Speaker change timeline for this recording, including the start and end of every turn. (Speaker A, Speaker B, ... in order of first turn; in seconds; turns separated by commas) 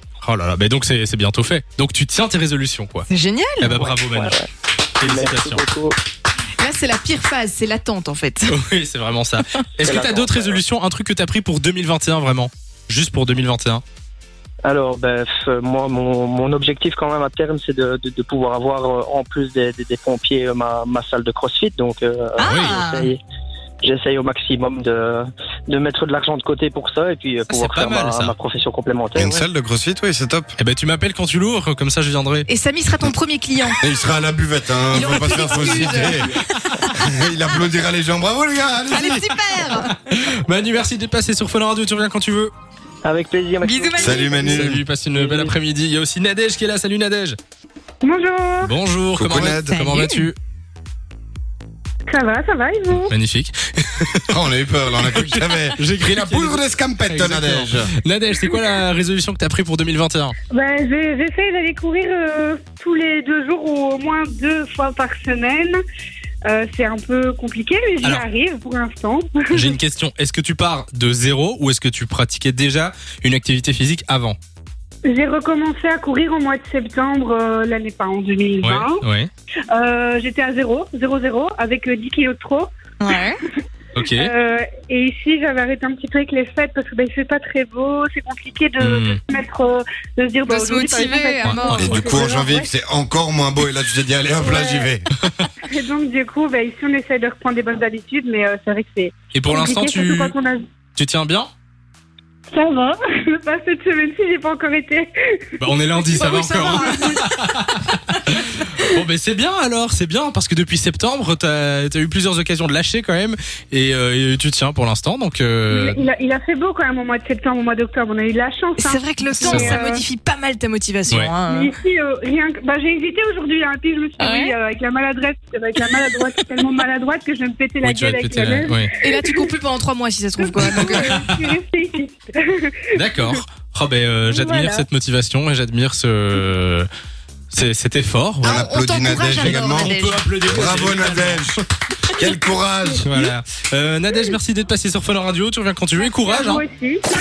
Speaker A: 0.2-3.1, Speaker B: 3.1-4.0, Speaker A: 3.6-4.4, Speaker C: 4.0-4.5, Speaker A: 5.0-5.7, Speaker C: 5.0-6.0, Speaker B: 6.6-8.6, Speaker A: 8.5-13.8, Speaker C: 9.8-10.6, Speaker C: 14.6-23.2, Speaker B: 22.4-23.1, Speaker A: 22.4-22.8, Speaker C: 23.8-29.4, Speaker A: 27.5-28.3, Speaker D: 29.1-30.5, Speaker A: 30.6-32.5, Speaker B: 32.5-33.8, Speaker D: 33.8-36.3, Speaker B: 34.9-37.2, Speaker C: 35.6-36.3, Speaker D: 37.0-39.3, Speaker B: 38.9-40.0, Speaker A: 39.7-42.5, Speaker C: 43.0-45.5, Speaker B: 43.6-44.5, Speaker D: 44.0-44.8, Speaker A: 44.4-47.4, Speaker E: 48.0-48.7, Speaker A: 48.6-50.4, Speaker D: 49.1-49.8, Speaker B: 49.7-50.3, Speaker E: 52.1-53.1, Speaker A: 52.9-54.3, Speaker D: 54.3-57.9, Speaker A: 55.1-60.4, Speaker E: 60.5-65.8, Speaker E: 66.5-69.8, Speaker A: 69.5-74.4, Speaker E: 75.0-79.0, Speaker A: 78.6-79.3, Speaker E: 79.7-82.7, Speaker B: 83.0-83.4, Speaker A: 83.9-84.3, Speaker E: 84.1-92.7, Speaker A: 88.8-89.2, Speaker B: 90.4-92.0, Speaker A: 91.4-92.1, Speaker D: 91.8-95.1, Speaker E: 94.4-94.9, Speaker E: 95.7-100.6, Speaker A: 99.3-100.3, Speaker A: 101.0-101.5, Speaker E: 102.5-105.4, Speaker A: 105.6-116.0, Speaker B: 106.1-107.2, Speaker E: 106.5-107.1, Speaker B: 108.1-108.6, Speaker E: 115.7-120.0, Speaker B: 118.8-121.8, Speaker A: 119.4-119.8, Speaker E: 121.5-129.5, Speaker B: 124.2-124.5, Speaker A: 127.8-128.9, Speaker B: 128.9-131.2, Speaker E: 130.4-133.4, Speaker A: 130.6-131.4, Speaker A: 132.9-136.9, Speaker E: 134.2-134.9, Speaker A: 137.5-138.6, Speaker D: 138.4-141.6, Speaker B: 138.4-140.2, Speaker A: 139.4-141.6, Speaker D: 142.2-143.1, Speaker A: 143.0-146.6, Speaker E: 143.0-143.3, Speaker E: 146.0-147.0